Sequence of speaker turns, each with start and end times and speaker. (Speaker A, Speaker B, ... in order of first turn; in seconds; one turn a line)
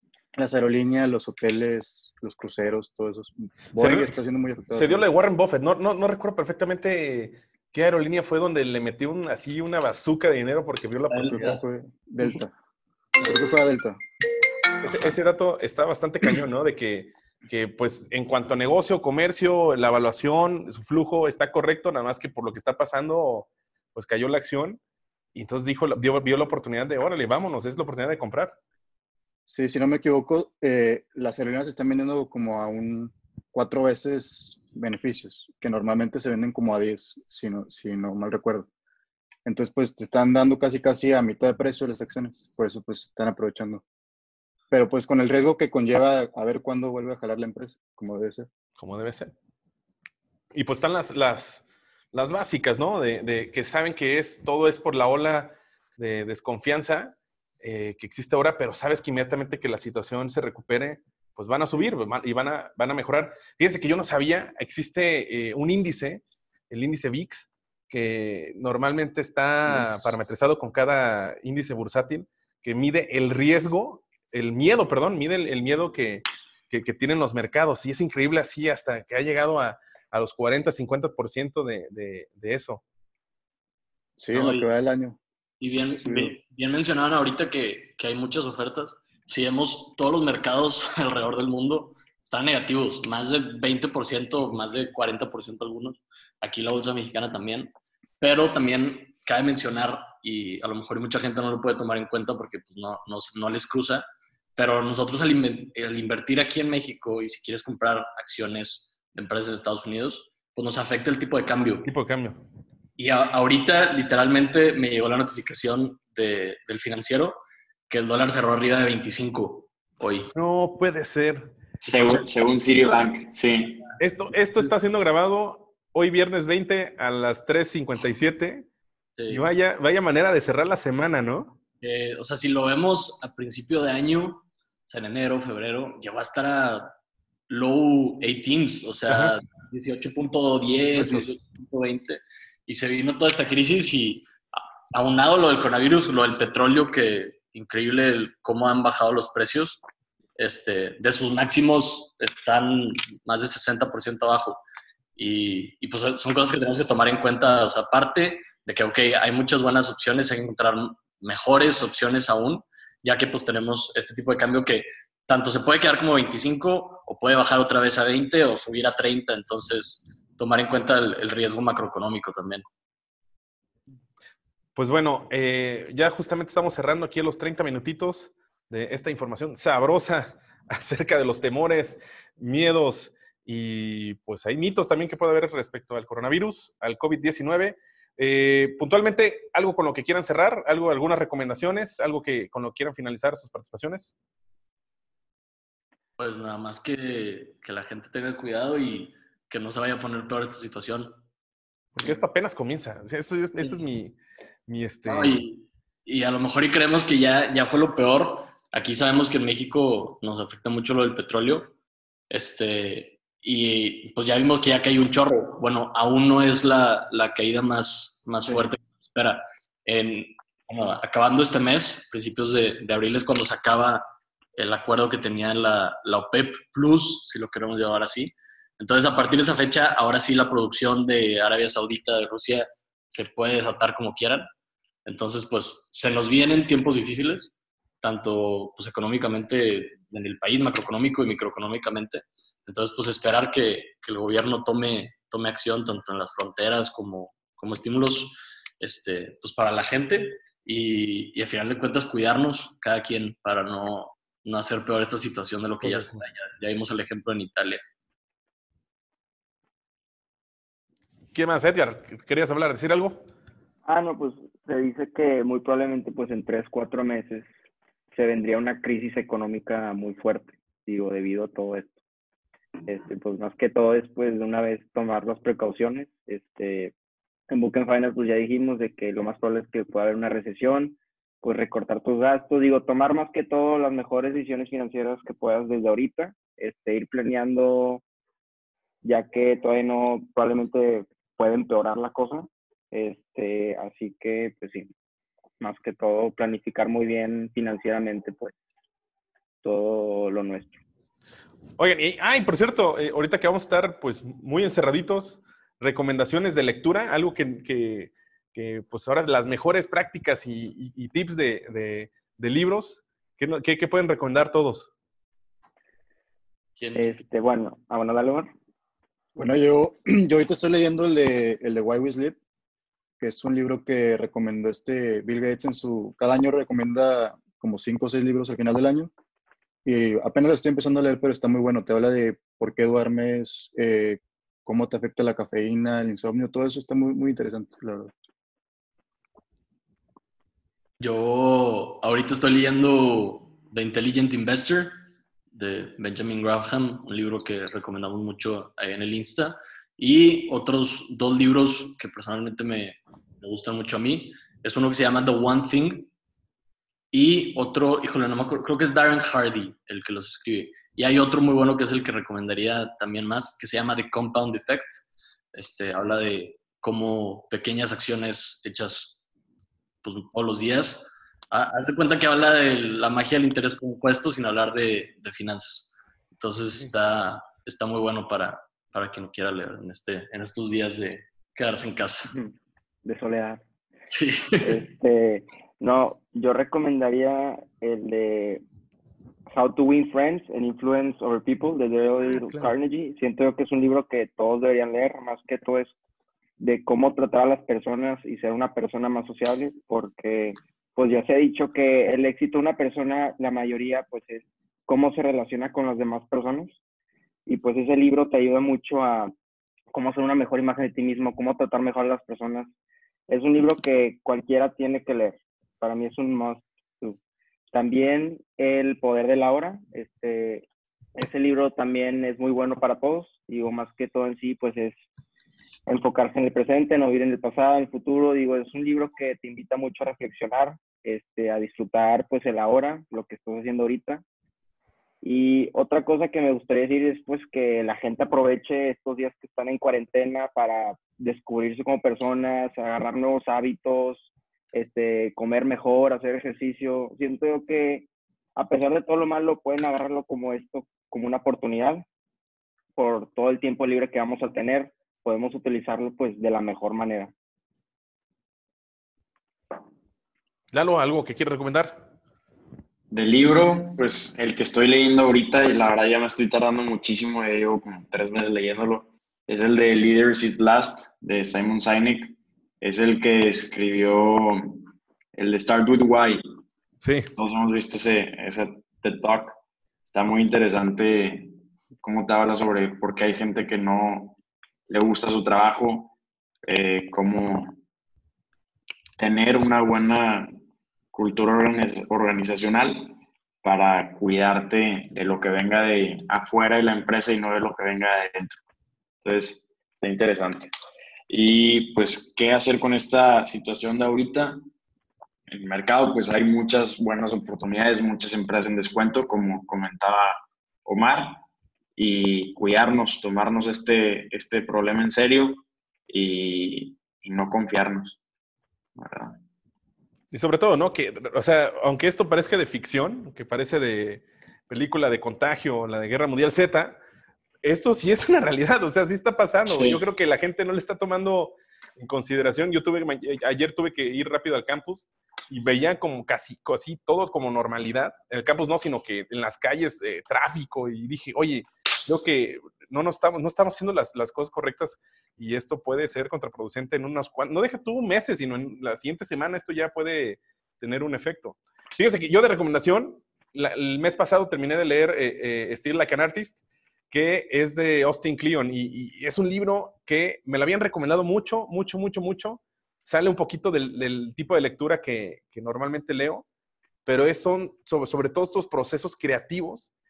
Speaker A: 0.3-5.0
Speaker B: 3.8-4.2
Speaker B: 4.7-11.6
Speaker A: 11.1-12.5
Speaker A: 13.2-14.0
Speaker B: 14.8-24.8
Speaker B: 25.3-28.6
Speaker A: 29.5-38.7
Speaker A: 39.5-43.8
Speaker A: 44.7-48.5
Speaker B: 48.8-49.3
Speaker B: 50.5-82.8
Speaker A: 84.2-85.2
Speaker C: 84.3-84.7
Speaker C: 85.6-111.9
Speaker A: 86.0-86.3
Speaker B: 111.8-112.4
Speaker C: 113.0-120.3
Speaker B: 120.3-121.5
Speaker D: 121.8-123.9
Speaker B: 124.0-128.7
Speaker C: 129.2-129.4
Speaker B: 129.3-131.6
Speaker C: 131.8-136.9
Speaker C: 137.5-149.8
Speaker B: 139.1-139.3
Speaker B: 140.9-141.3
Speaker C: 150.4-154.6
Speaker C: 155.2-172.7
Speaker B: 174.8-194.1
Speaker C: 196.2-201.2
Speaker B: 202.0-204.2
Speaker B: 204.7-205.4
Speaker C: 205.1-211.7
Speaker C: 212.3-224.0
Speaker C: 224.6-234.5
Speaker C: 235.1-257.8
Speaker B: 255.8-256.2
Speaker B: 261.3-263.3
Speaker E: 263.9-267.5
Speaker E: 268.1-271.9
Speaker E: 272.9-276.9
Speaker E: 277.5-288.0
Speaker E: 289.0-294.9
Speaker E: 295.6-298.5
Speaker E: 299.6-300.8
Speaker B: 301.8-314.9
Speaker C: 316.8-317.2
Speaker E: 316.9-318.5
Speaker A: 319.4-322.4
Speaker A: 323.2-329.1
Speaker A: 329.9-338.1
Speaker C: 341.0-356.1
Speaker C: 357.1-365.0
Speaker C: 365.5-369.2
Speaker C: 370.0-382.3
Speaker E: 383.1-383.6
Speaker C: 384.1-384.8
Speaker E: 384.6-388.6
Speaker E: 389.5-395.9
Speaker B: 392.2-392.8
Speaker E: 396.6-406.8
Speaker E: 407.5-409.3
Speaker E: 409.9-412.7
Speaker E: 413.3-417.2
Speaker E: 417.7-425.0
Speaker E: 425.9-434.2
Speaker E: 435.2-452.0
Speaker E: 453.0-457.3
Speaker B: 460.7-462.1
Speaker D: 463.1-474.9
Speaker D: 475.4-476.4
Speaker B: 477.0-477.3
Speaker D: 477.4-484.4
Speaker D: 484.9-486.1
Speaker D: 486.7-487.8
Speaker D: 489.2-490.5
Speaker D: 491.1-498.6
Speaker D: 499.2-500.7
Speaker D: 501.3-504.6
Speaker D: 505.5-511.4
Speaker D: 512.0-518.2
Speaker D: 519.0-519.4
Speaker B: 520.3-527.0
Speaker B: 527.6-556.6
Speaker D: 529.7-530.0
Speaker B: 557.1-566.5
Speaker B: 567.1-569.9